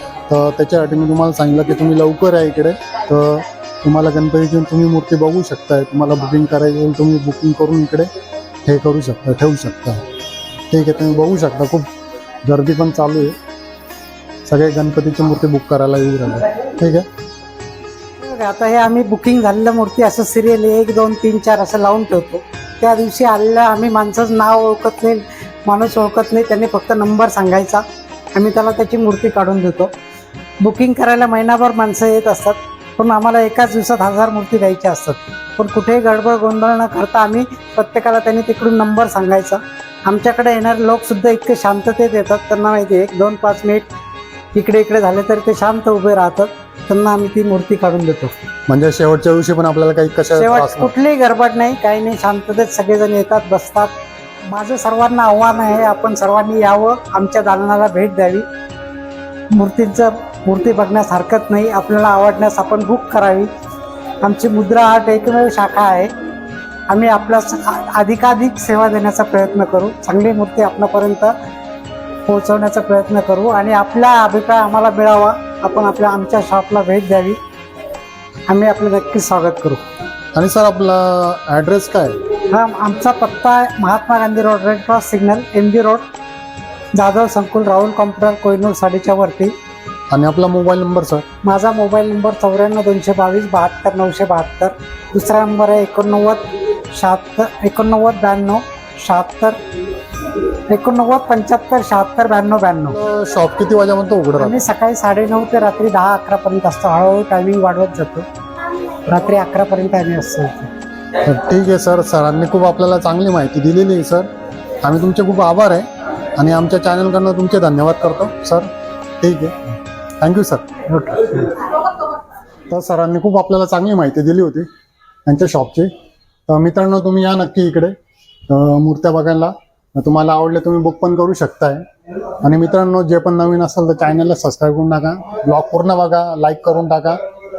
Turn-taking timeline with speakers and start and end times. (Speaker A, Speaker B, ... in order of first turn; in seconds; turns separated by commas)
Speaker A: 0.3-8.1, Speaker A: 8.7-10.0, Speaker A: 10.7-11.9, Speaker A: 12.5-13.3, Speaker A: 14.5-17.1, Speaker B: 18.2-27.8, Speaker B: 28.3-29.9, Speaker B: 30.6-43.9, Speaker B: 44.5-48.3, Speaker A: 48.7-50.9, Speaker B: 50.4-53.9, Speaker B: 54.5-58.5, Speaker B: 59.5-63.5, Speaker B: 64.2-66.1, Speaker B: 66.9-71.3, Speaker B: 72.3-77.4, Speaker B: 78.5-79.8, Speaker A: 80.3-82.2, Speaker B: 82.5-86.0, Speaker B: 87.0-89.5, Speaker A: 90.1-91.2, Speaker B: 91.4-99.6, Speaker B: 100.7-103.0, Speaker A: 102.9-104.6, Speaker B: 104.4-108.3, Speaker B: 109.1-110.7, Speaker A: 111.2-114.3, Speaker A: 114.8-118.7, Speaker A: 119.2-119.6, Speaker A: 120.2-120.7, Speaker B: 120.9-121.5, Speaker A: 122.7-124.7, Speaker A: 125.3-125.9, Speaker A: 126.5-127.9, Speaker A: 128.5-131.8, Speaker A: 132.4-137.2